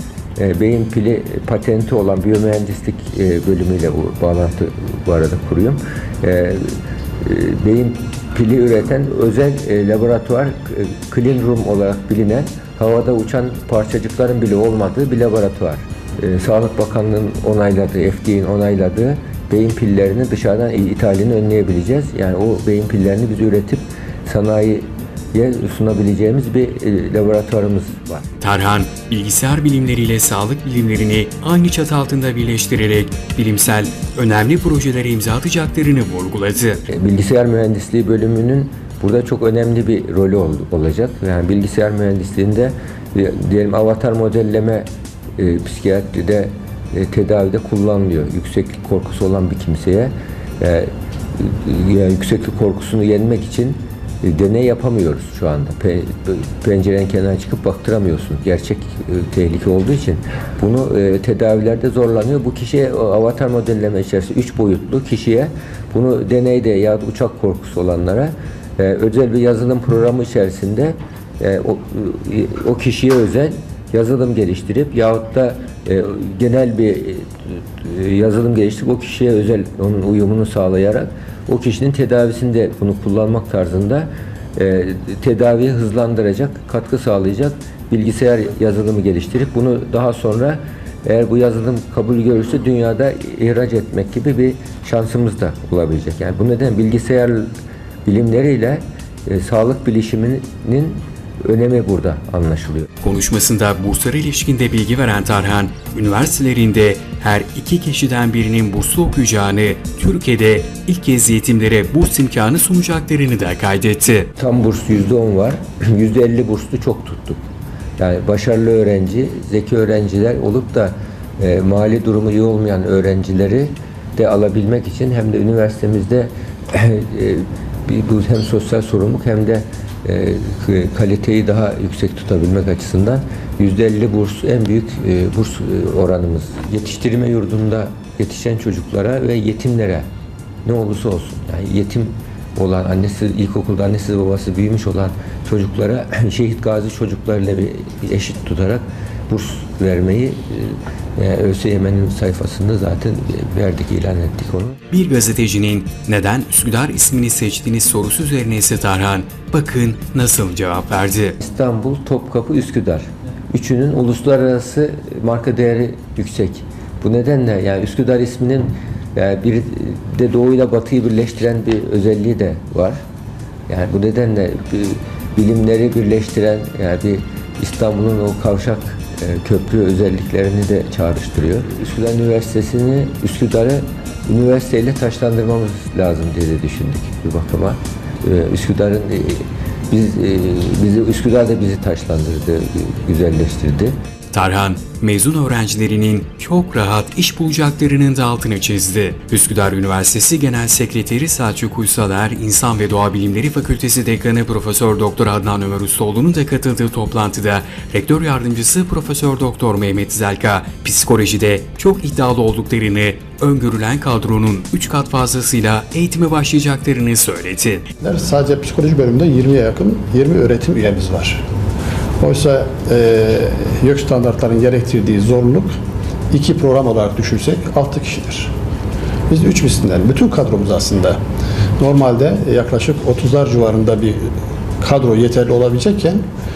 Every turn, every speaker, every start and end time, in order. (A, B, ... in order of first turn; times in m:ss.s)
0:00.4-0:28.2 A
0:28.4-0:36.8 B
0:36.9-1:37.5 A
1:38.0-1:42.9 A
1:43.0-1:54.3 B
1:54.4-1:57.4 A
1:58.0-2:20.0 A
2:20.6-2:34.8 A
2:34.9-2:41.4 B
2:41.4-2:53.0 A
2:53.7-3:13.9 A
3:14.3-3:37.8 B
3:38.0-3:41.4 C
3:42.2-3:45.7 C
3:46.3-3:48.5 C
3:49.3-3:51.2 C
3:51.8-3:56.2 C